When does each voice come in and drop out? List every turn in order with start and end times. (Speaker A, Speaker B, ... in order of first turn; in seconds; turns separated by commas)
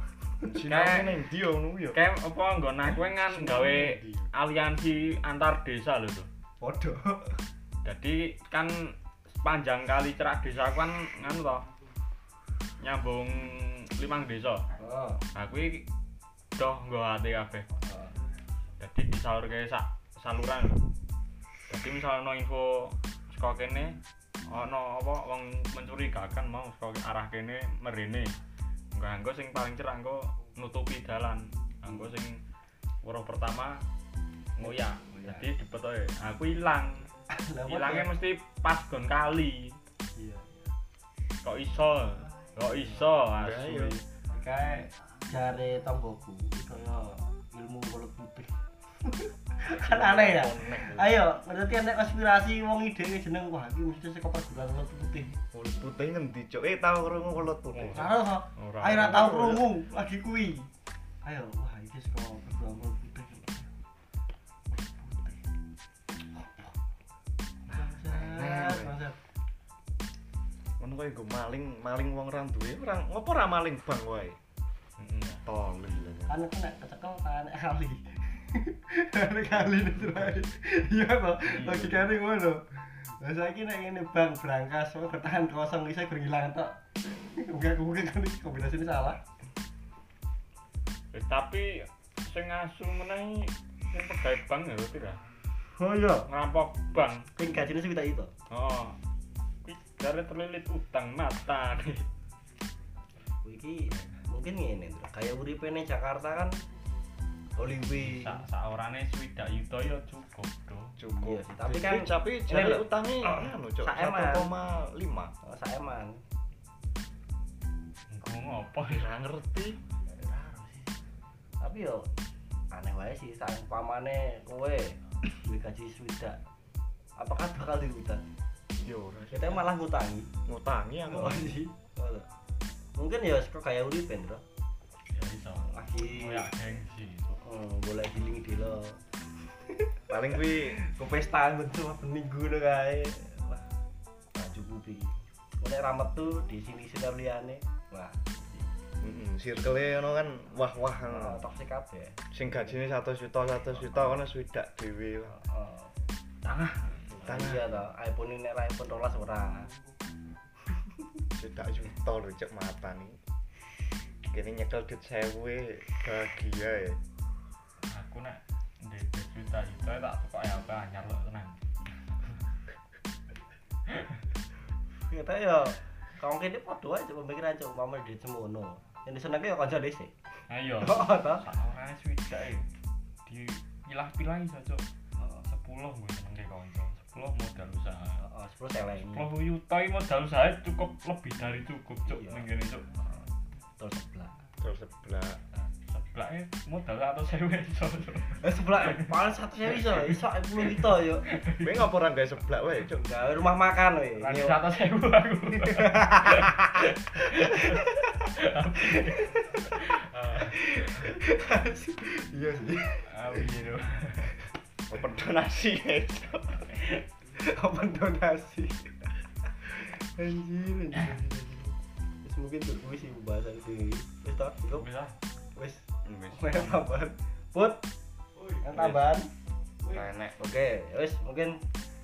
Speaker A: 0.4-2.0, Speaker B: 0.7-1.2, Speaker B: 1.9-6.3, Speaker A: 3.2-4.3, Speaker C: 6.6-7.4, Speaker B: 7.8-11.7, Speaker B: 12.8-14.7, Speaker C: 14.8-15.2, Speaker B: 15.3-15.8, Speaker B: 16.6-17.7, Speaker C: 17.9-18.1, Speaker B: 18.8-20.8, Speaker B: 21.7-24.0, Speaker B: 24.5-28.3, Speaker B: 28.9-32.4, Speaker B: 33.0-33.8, Speaker B: 34.5-37.1, Speaker C: 34.6-35.5, Speaker C: 37.3-38.1, Speaker B: 37.6-39.8, Speaker C: 40.1-40.7, Speaker B: 41.4-44.0, Speaker A: 43.4-44.0, Speaker C: 44.3-55.4, Speaker A: 49.6-51.2, Speaker A: 55.5-58.1, Speaker B: 57.7-59.6, Speaker C: 57.8-60.7, Speaker A: 58.9-59.6, Speaker C: 61.2-63.7, Speaker C: 64.7-65.4, Speaker C: 66.1-66.7, Speaker C: 67.7-69.2, Speaker A: 67.7-69.0, Speaker A: 70.8-74.4, Speaker B: 75.0-75.4, Speaker A: 75.4-76.4, Speaker C: 76.3-89.2, Speaker B: 81.4-82.1, Speaker B: 91.1-95.2, Speaker C: 95.7-96.3, Speaker B: 96.3-97.3, Speaker C: 97.3-98.3, Speaker B: 98.5-99.0, Speaker B: 99.6-102.0, Speaker C: 103.4-106.6, Speaker C: 107.5-108.4, Speaker B: 107.9-110.9, Speaker A: 111.0-115.3, Speaker C: 111.2-114.5, Speaker C: 115.4-116.2, Speaker B: 118.1-119.1, Speaker A: 118.9-119.8, Speaker C: 120.1-120.9, Speaker C: 121.6-122.2, Speaker C: 122.7-126.4, Speaker C: 127.2-128.2, Speaker A: 128.8-129.7, Speaker C: 129.3-130.3, Speaker A: 130.4-131.6, Speaker C: 131.1-132.3, Speaker C: 132.9-134.4, Speaker B: 135.1-137.3, Speaker C: 135.7-136.5, Speaker C: 137.3-143.7, Speaker A: 140.1-140.8, Speaker C: 144.3-148.7, Speaker A: 149.0-151.4, Speaker C: 151.1-152.8, Speaker A: 152.3-155.4, Speaker C: 153.7-154.2, Speaker C: 155.3-155.9, Speaker B: 156.4-157.1, Speaker C: 157.1-159.7, Speaker A: 157.2-157.8, Speaker A: 161.4-163.2, Speaker A: 164.3-167.0, Speaker B: 167.9-171.6, Speaker C: 175.1-180.1, Speaker B: 180.5-182.7, Speaker C: 180.8-181.4, Speaker B: 183.2-184.8, Speaker C: 185.2-185.4, Speaker B: 185.4-188.2, Speaker C: 188.2-189.3, Speaker B: 189.0-192.9, Speaker C: 192.1-192.4, Speaker C: 193.8-194.4, Speaker A: 194.6-195.4, Speaker B: 195.5-201.9, Speaker C: 198.4-201.2, Speaker A: 201.6-203.0, Speaker C: 202.9-204.7, Speaker B: 204.2-211.1, Speaker C: 205.6-207.9, Speaker C: 208.8-209.6, Speaker C: 210.3-214.4, Speaker B: 213.1-214.3, Speaker A: 214.9-216.8, Speaker C: 217.3-224.8, Speaker B: 224.7-225.1, Speaker C: 225.5-227.8, Speaker A: 226.0-226.8, Speaker C: 228.6-229.3, Speaker B: 228.7-229.0, Speaker A: 229.9-230.4, Speaker C: 230.4-231.6